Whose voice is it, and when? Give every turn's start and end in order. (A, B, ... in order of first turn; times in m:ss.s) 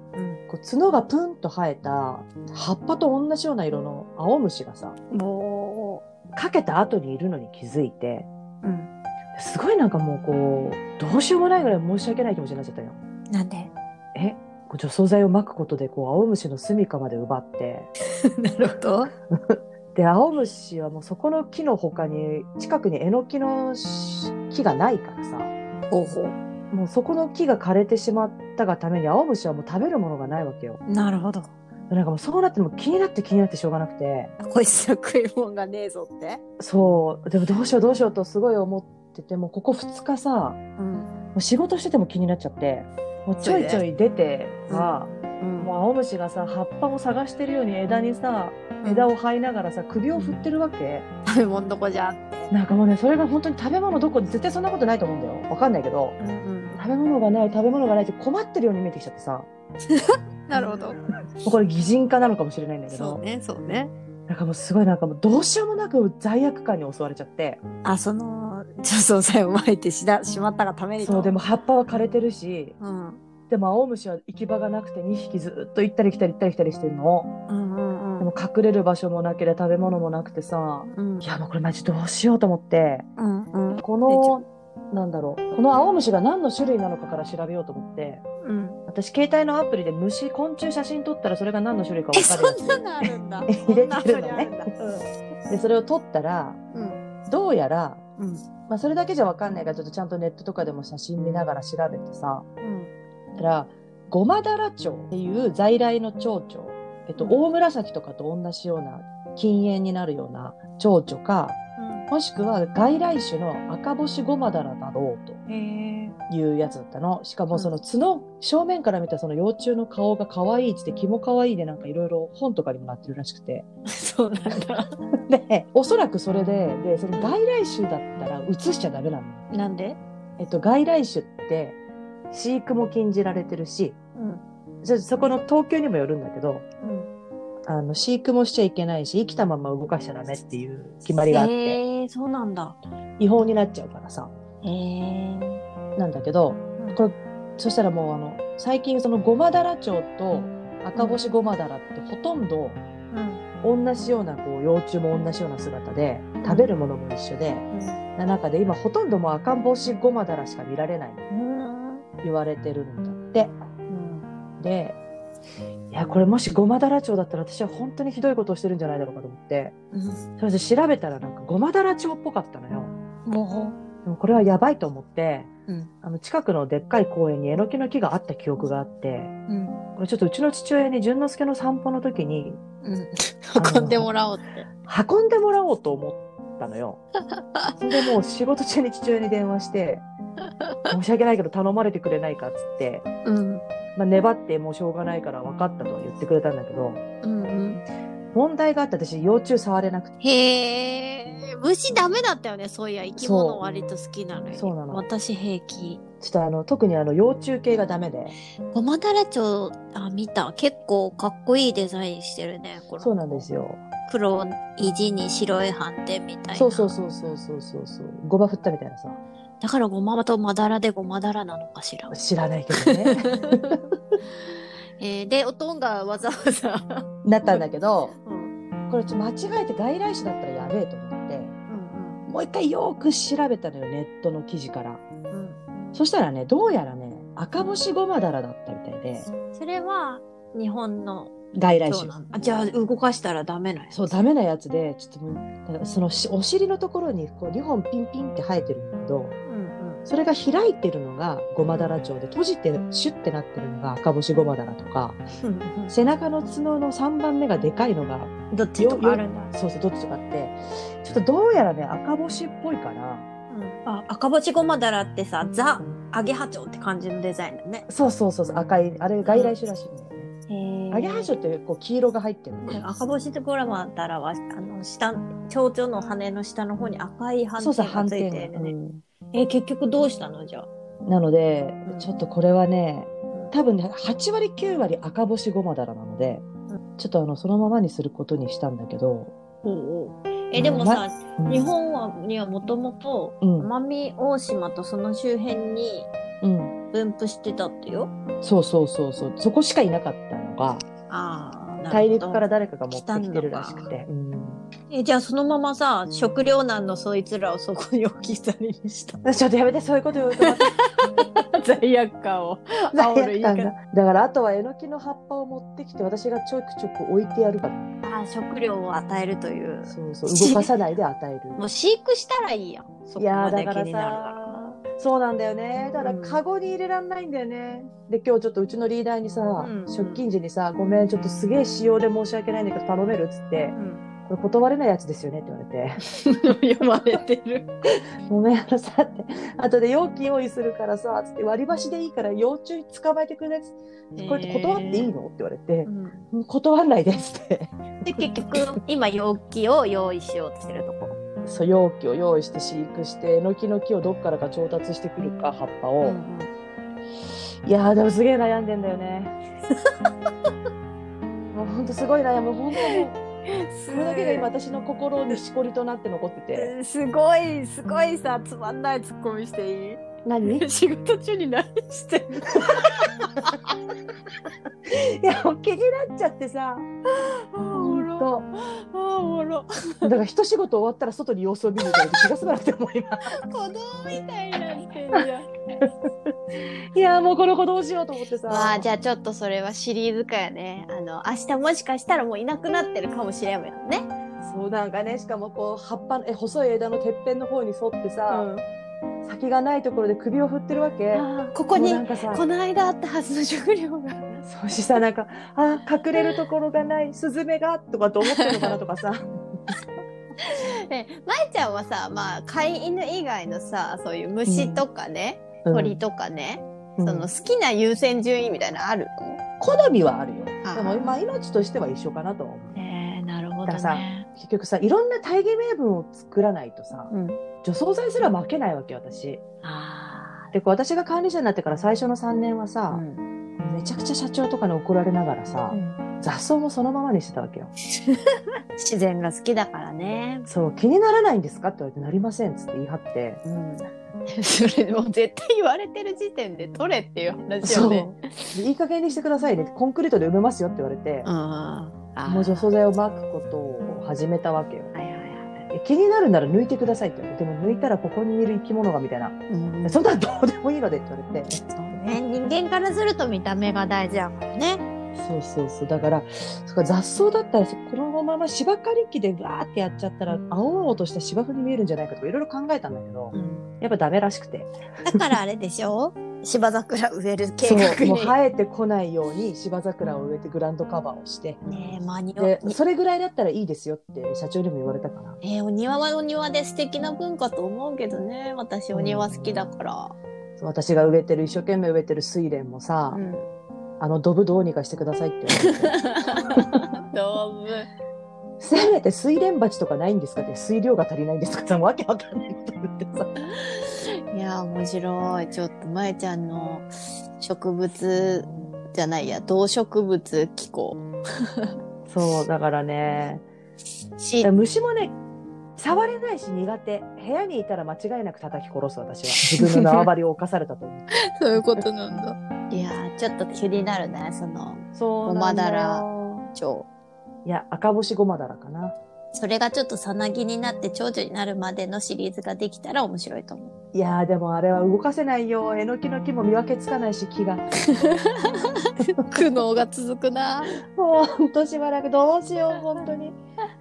0:00.1-0:00.4 A
0:00.5-0:05.0 B
0:05.1-0:06.0 A
0:06.3-0:08.3 B
0:08.6-0:08.9 A
0:09.4-0:13.0 B
0:13.3-0:13.7 A
0:14.1-0:17.9 B
0:18.4-0:19.1 A
0:19.9-0:25.5 B
0:25.9-0:26.3 A
0:26.7-0:30.8 B
0:30.9-0:31.5 A
0:31.9-0:34.3 B
0:34.4-0:36.4 A
0:36.6-0:40.6 B
0:37.4-0:37.7 A
0:40.8-0:41.1 A
0:41.3-0:45.1 B
0:43.4-0:43.8 A
0:44.7-0:45.7 A
0:45.6-0:51.0 B
0:48.8-0:49.1 A
0:50.1-0:50.4 A
0:51.2-0:52.5 A
0:52.5-0:56.2 B
0:56.2-0:56.8 A
0:56.8-0:59.5 B
0:59.9-1:01.0 A
1:01.4-1:03.2 B
1:02.9-1:03.9 A
1:04.3-1:07.6 B
1:07.8-1:11.3 A
1:11.0-1:12.8 B
1:12.8-1:13.2 A
1:13.5-1:17.3 B
1:17.5-1:18.3 A
1:18.2-1:23.1 B
1:20.9-1:21.3 A
1:23.2-1:24.4 A
1:23.8-1:28.2 B
1:28.4-1:28.8 A
1:28.9-1:34.7 B
1:32.1-1:35.1 A
1:35.5-1:36.6 B
1:36.7-1:37.0 A
1:37.3-1:38.0 B
1:38.2-1:38.4 A
1:38.7-1:42.4 B
1:42.6-1:42.9 A
1:43.4-1:51.6 B
1:51.8-1:52.1 A
1:52.1-1:55.4 B
1:55.5-1:56.1 A
1:56.3-2:03.6 B
2:03.9-2:04.8 A
2:05.3-2:09.4 B
2:07.1-2:07.4 A
2:09.5-2:10.0 A
2:10.4-2:11.8 B
2:12.3-2:14.0 B
2:14.2-2:14.4 A
2:14.8-2:16.6 B
2:16.8-2:17.1 A
2:17.7-2:21.8 B
2:21.3-2:22.8 A
2:23.2-2:24.3 B
2:24.6-2:25.6 A
2:26.0-2:32.8 B
2:33.1-2:33.4 A
2:33.6-2:37.6 B
2:36.4-2:36.7 A
2:37.7-2:38.0 A
2:38.2-2:41.2 B
2:41.3-2:42.0 A
2:42.2-2:43.6 B
2:43.9-2:44.2 A
2:44.6-2:45.0 B
2:45.9-2:49.7 B
2:49.9-2:50.2 A
2:50.4-2:52.9 B
2:53.2-2:53.8 A
2:54.0-2:55.5 B
2:56.0-2:59.3 B
2:59.5-2:59.8 A
3:00.0-3:02.6 B
3:02.8-3:04.7 A
3:03.6-3:04.1 B
3:04.8-3:07.0 B
3:07.8-3:10.0 B
3:10.6-3:10.9 A
3:10.9-3:13.0 B
3:13.2-3:13.6 A
3:14.0-3:17.0 B
3:17.2-3:17.8 A
3:18.3-3:20.1 B
3:20.2-3:26.0 A
3:23.2-3:23.6 B
3:24.5-3:25.0 B
3:26.2-3:28.4 B
3:28.7-3:33.4 A
3:33.0-3:33.8 B
3:34.1-3:36.9 A
3:36.5-3:39.2 B
3:39.6-3:42.1 A
3:42.1-3:43.8 B
3:42.8-3:43.8 A
3:45.0-3:47.6 A
3:47.2-3:48.1 B
3:48.2-3:48.5 A
3:48.9-3:51.5 B
3:51.7-3:52.2 A
3:52.3-3:55.0 B
3:55.3-3:56.0 A
3:55.9-3:59.3 B
3:59.5-4:04.2 A
4:01.5-4:02.1 B
4:03.9-4:09.3 B
4:09.4-4:10.0 A
4:10.0-4:15.2 B
4:11.7-4:12.0 A
4:15.4-4:15.9 A
4:15.9-4:23.2 B
4:18.5-4:19.5 A
4:23.5-4:27.9 A
4:27.9-4:30.3 B
4:29.2-4:29.5 A
4:30.5-4:31.3 A
4:30.9-4:32.8 B
4:32.6-4:38.7 A
4:37.6-4:39.0 B
4:39.3-4:40.7 A
4:41.0-4:46.4 B
4:47.0-4:49.3 B
4:49.6-4:56.1 A
4:50.5-4:51.7 B
4:53.4-4:53.7 B
4:56.4-4:56.7 B
4:56.9-4:58.1 A
4:58.4-5:00.8 B
5:01.1-5:03.9 A
5:01.9-5:04.6 B
5:04.9-5:09.2 A
5:09.2-5:10.8 B
5:11.0-5:13.7 A
5:12.9-5:17.9 B
5:18.0-5:20.7 A
5:19.9-5:21.6 B
5:21.6-5:24.8 A
5:23.2-5:33.7 B
5:26.0-5:26.4 A
5:29.6-5:30.2 A
5:33.7-5:34.0 A
5:34.2-5:36.0 B
5:36.2-5:37.7 A
5:38.3-5:48.8 B
5:44.1-5:45.1 A
5:45.8-5:46.2 A
5:48.0-5:51.2 A
5:51.4-5:56.2 B
5:56.0-5:56.5 A
5:57.6-5:59.3 B
6:01.5-6:03.2 B
6:02.8-6:04.5 A
6:03.9-6:06.7 B
6:06.5-6:10.0 A
6:10.2-6:10.6 B
6:10.6-6:13.3 A
6:14.9-6:16.9 B
6:17.5-6:20.1 A
6:17.7-6:18.4 B
6:20.0-6:23.3 B
6:23.4-6:25.5 A
6:26.9-6:28.8 B
6:28.5-6:34.1 A
6:34.4-6:38.5 B
6:38.3-6:38.6 A
6:39.2-6:42.4 B
6:41.1-6:44.4 A
6:44.4-6:49.2 B
6:46.2-6:46.4 A
6:48.4-6:48.7 A
6:50.4-6:59.4 A
6:54.5-6:54.8 B
6:55.6-6:56.0 B
6:57.0-6:57.3 B
6:59.6-7:02.7 B
7:00.6-7:01.2 A
7:02.7-7:04.3 A
7:03.6-7:07.1 B
7:07.1-7:07.4 A
7:07.6-7:09.4 B
7:09.6-7:10.5 A
7:10.5-7:13.0 B
7:12.9-7:13.2 A
7:13.6-7:17.7 B
7:15.7-7:16.0 A
7:18.8-7:20.5 A
7:20.5-7:23.4 B
7:23.4-7:28.2 A
7:27.6-7:31.3 B
7:31.2-7:32.7 A
7:32.3-7:34.9 B
7:34.9-7:35.6 A
7:35.7-7:41.6 B
7:39.5-7:40.0 A
7:41.6-7:44.8 A
7:45.1-7:55.2 B
7:53.3-7:53.6 A
7:55.1-7:58.4 A
7:57.6-8:01.8 B
8:01.6-8:02.8 A
8:02.4-8:05.4 B
8:05.4-8:10.1 A
8:08.9-8:09.7 B
8:10.6-8:13.2 B
8:13.1-8:13.5 A
8:14.0-8:16.0 B
8:15.9-8:17.9 A
8:18.6-8:23.3 B
8:24.3-8:31.0 A
8:28.2-8:28.6 B
8:32.1-8:33.4 B
8:34.2-8:34.5 A
8:34.4-8:35.2 B
8:35.8-8:41.8 B
8:39.4-8:40.1 A
8:41.3-8:46.9 A
8:44.9-8:46.5 B
8:47.4-8:48.9 B
8:49.3-8:53.7 A
8:53.9-8:57.6 B
8:57.9-9:00.7 A
8:59.0-8:59.3 B
9:00.9-9:03.4 B